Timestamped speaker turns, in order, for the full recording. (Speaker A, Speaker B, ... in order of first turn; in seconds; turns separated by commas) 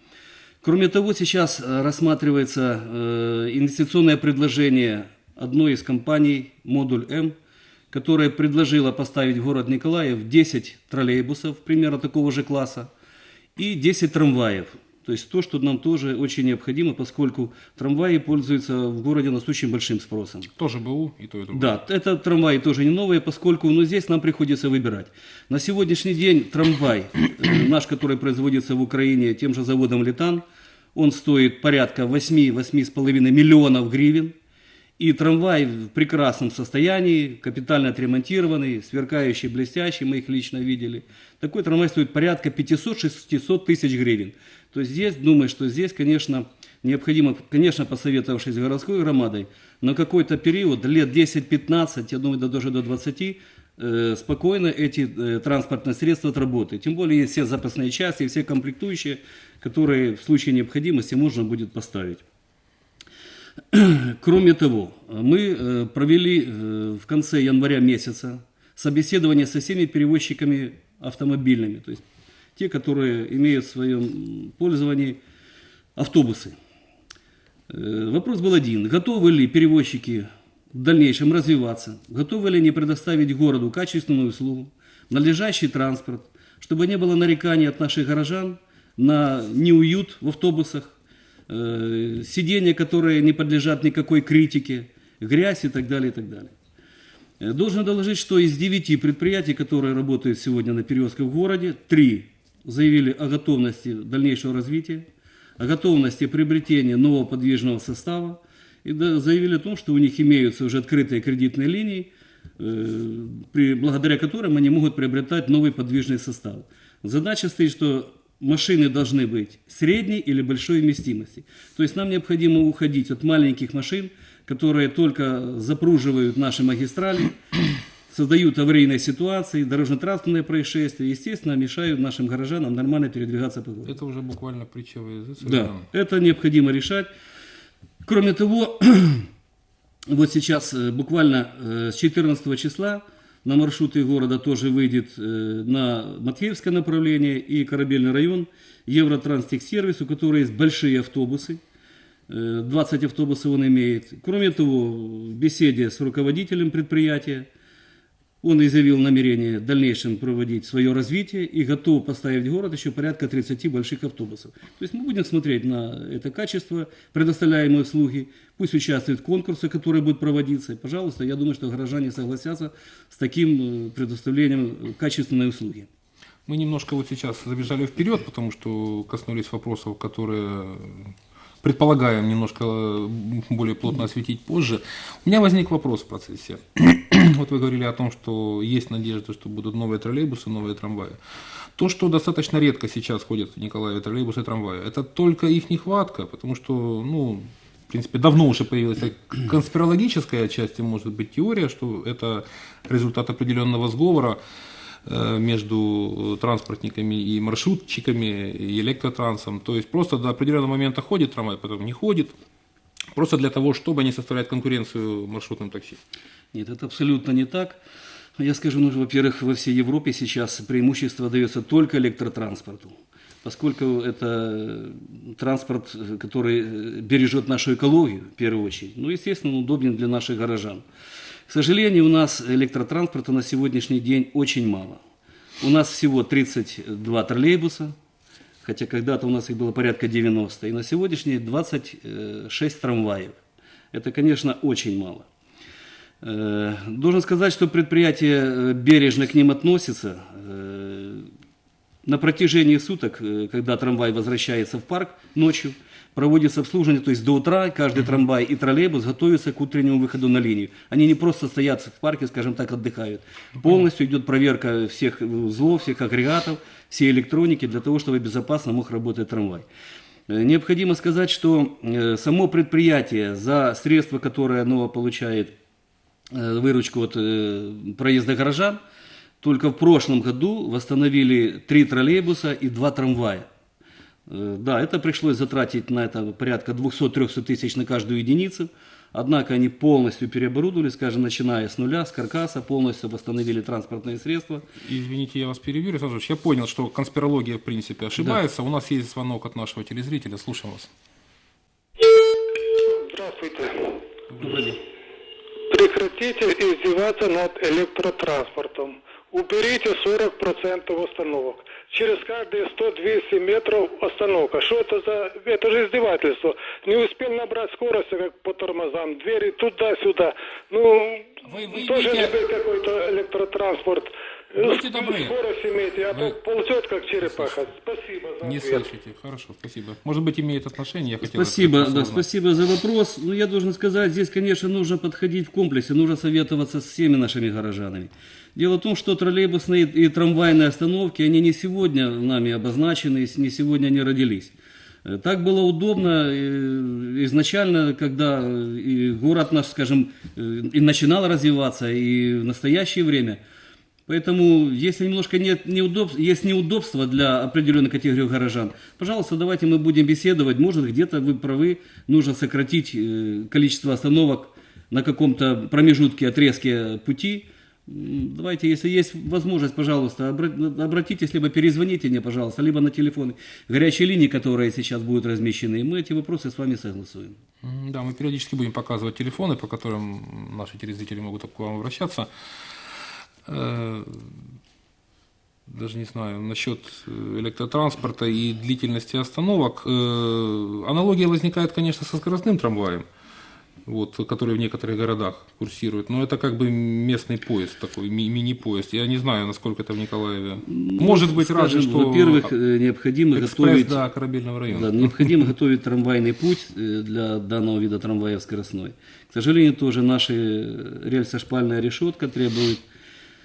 Speaker A: 0.6-7.3, Speaker A: 7.9-12.9, Speaker A: 13.6-20.5, Speaker B: 20.6-21.8, Speaker A: 21.5-30.4, Speaker A: 30.9-34.4, Speaker A: 35.0-62.2, Speaker A: 63.7-72.0, Speaker A: 72.6-75.2, Speaker A: 76.0-76.6, Speaker A: 77.7-91.0, Speaker A: 91.5-96.5, Speaker A: 97.4-105.1, Speaker A: 105.6-127.4, Speaker A: 128.1-133.9, Speaker B: 133.9-135.9, Speaker A: 135.4-137.1, Speaker A: 138.1-139.3, Speaker A: 140.1-151.6, Speaker A: 152.3-157.5, Speaker A: 158.4-175.9, Speaker B: 176.5-191.2, Speaker B: 191.8-204.4, Speaker B: 205.1-212.4, Speaker B: 213.1-216.0, Speaker A: 216.5-217.8, Speaker A: 218.4-230.8, Speaker A: 231.5-235.0, Speaker A: 235.6-237.9, Speaker A: 238.6-243.4, Speaker A: 243.9-245.3, Speaker A: 246.2-251.3, Speaker A: 252.1-269.7, Speaker A: 270.3-275.5, Speaker A: 276.3-278.8, Speaker A: 279.4-283.5, Speaker A: 284.3-294.7, Speaker B: 294.8-300.9, Speaker C: 303.0-303.9, Speaker B: 304.3-304.7, Speaker A: 304.4-304.8, Speaker C: 305.7-328.9, Speaker B: 321.4-322.4, Speaker B: 324.6-325.4, Speaker B: 326.1-326.4, Speaker B: 327.2-327.6, Speaker B: 328.4-332.3, Speaker A: 331.2-344.5, Speaker A: 345.1-353.4, Speaker A: 354.1-377.4, Speaker B: 377.6-382.3, Speaker B: 383.5-384.4, Speaker B: 385.7-393.1, Speaker B: 393.9-402.5, Speaker A: 400.7-404.0, Speaker B: 403.3-405.5, Speaker A: 404.7-412.9